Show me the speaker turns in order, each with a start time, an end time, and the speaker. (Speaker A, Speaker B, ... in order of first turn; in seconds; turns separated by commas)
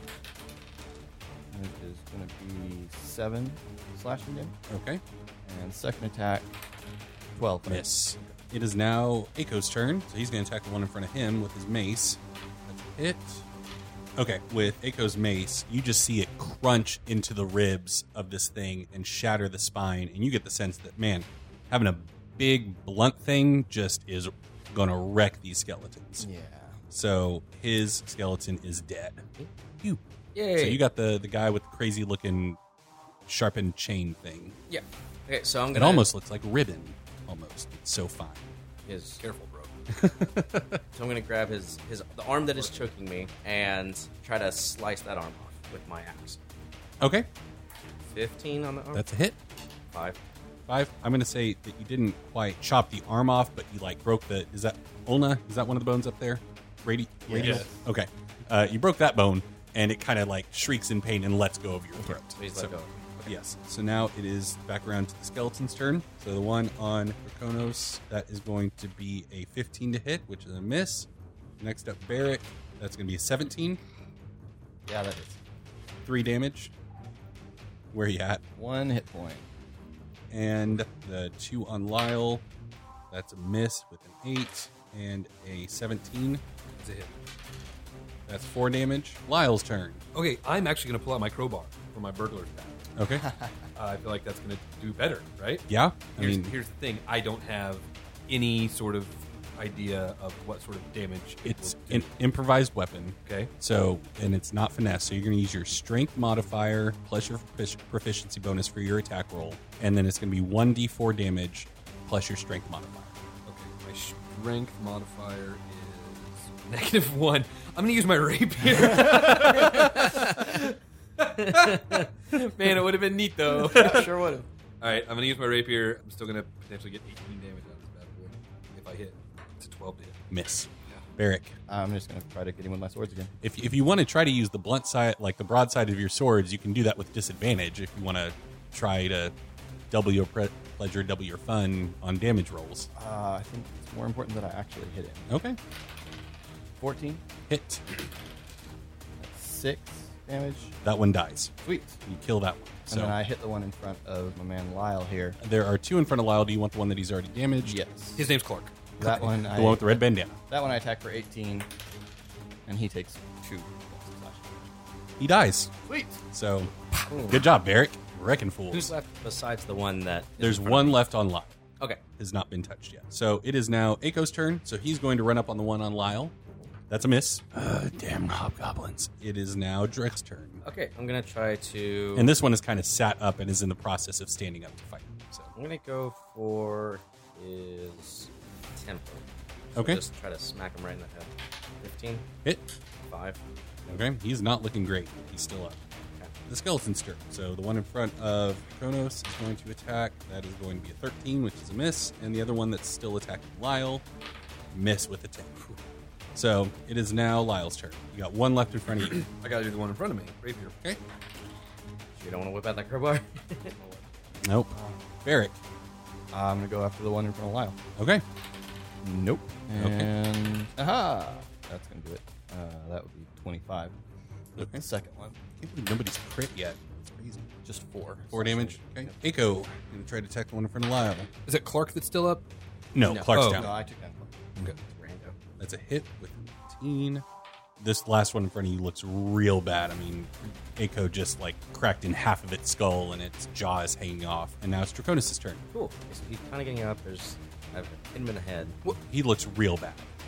Speaker A: 1.5-4.5, Speaker B: 4.7-5.0, Speaker A: 5.4-6.5, Speaker A: 7.3-8.3, Speaker B: 7.7-13.4, Speaker B: 14.2-26.3, Speaker A: 26.2-26.8, Speaker B: 26.9-29.2, Speaker C: 30.3-30.8, Speaker B: 30.6-32.6, Speaker B: 33.2-34.6, Speaker C: 34.7-36.1, Speaker B: 35.7-38.4, Speaker C: 38.9-39.2, Speaker D: 39.2-39.7, Speaker B: 39.9-40.8, Speaker C: 40.9-46.4, Speaker B: 47.0-47.3, Speaker C: 48.1-49.0, Speaker B: 48.9-49.4, Speaker C: 49.9-50.2, Speaker B: 50.7-62.7, Speaker A: 57.3-57.8, Speaker D: 57.4-57.6, Speaker C: 62.1-63.4, Speaker B: 63.2-71.1, Speaker B: 71.6-73.8, Speaker A: 74.8-75.4, Speaker B: 76.0-76.7, Speaker B: 77.9-78.4, Speaker A: 78.5-79.5, Speaker B: 80.3-82.4, Speaker B: 83.1-86.4, Speaker D: 86.8-87.1, Speaker B: 88.3-90.0, Speaker D: 90.1-92.8, Speaker B: 93.0-93.2, Speaker A: 93.1-93.5, Speaker D: 93.7-102.1, Speaker B: 95.7-96.5, Speaker B: 101.4-113.2, Speaker D: 103.2-103.5, Speaker D: 113.5-124.1, Speaker C: 119.5-120.4, Speaker C: 121.4-122.1, Speaker C: 123.5-124.5, Speaker D: 124.8-130.2, Speaker B: 130.3-131.6, Speaker A: 131.7-133.3, Speaker B: 133.4-139.3, Speaker B: 139.9-142.9, Speaker A: 142.9-145.3, Speaker B: 145.3-145.6, Speaker A: 146.8-147.2, Speaker B: 147.5-147.8, Speaker A: 149.2-150.8, Speaker B: 150.8-151.5, Speaker A: 151.6-152.0, Speaker B: 152.0-153.2, Speaker A: 152.9-155.4, Speaker B: 155.4-157.8, Speaker A: 157.6-158.3, Speaker D: 158.2-158.7, Speaker B: 159.0-160.4, Speaker A: 159.0-161.7, Speaker A: 162.7-164.7, Speaker B: 165.2-165.7, Speaker A: 165.8-166.2, Speaker B: 166.3-166.7, Speaker C: 167.1-167.4, Speaker B: 167.3-168.9, Speaker C: 168.7-170.8, Speaker B: 170.4-171.6, Speaker B: 172.2-176.3, Speaker B: 176.9-180.6, Speaker C: 180.6-182.3, Speaker B: 182.2-185.5, Speaker C: 185.5-192.2, Speaker B: 189.7-190.0, Speaker C: 193.1-194.0, Speaker B: 193.9-195.8, Speaker B: 196.5-204.0, Speaker B: 204.7-205.6, Speaker B: 206.3-209.2, Speaker D: 209.1-210.7, Speaker C: 212.1-213.9, Speaker B: 214.4-214.7, Speaker A: 214.7-215.0, Speaker B: 215.2-215.6, Speaker A: 216.3-217.8, Speaker B: 218.0-218.2, Speaker A: 219.0-223.9, Speaker B: 219.7-220.1, Speaker B: 224.6-224.8, Speaker A: 224.6-225.4, Speaker B: 225.6-227.5, Speaker A: 227.6-229.1, Speaker B: 228.3-231.3, Speaker D: 231.4-232.4, Speaker B: 232.9-233.7, Speaker C: 233.0-233.3, Speaker D: 233.3-233.7, Speaker A: 233.3-234.5, Speaker C: 234.8-235.3, Speaker B: 235.6-237.2, Speaker B: 237.8-245.6, Speaker C: 245.7-248.8, Speaker B: 248.8-250.2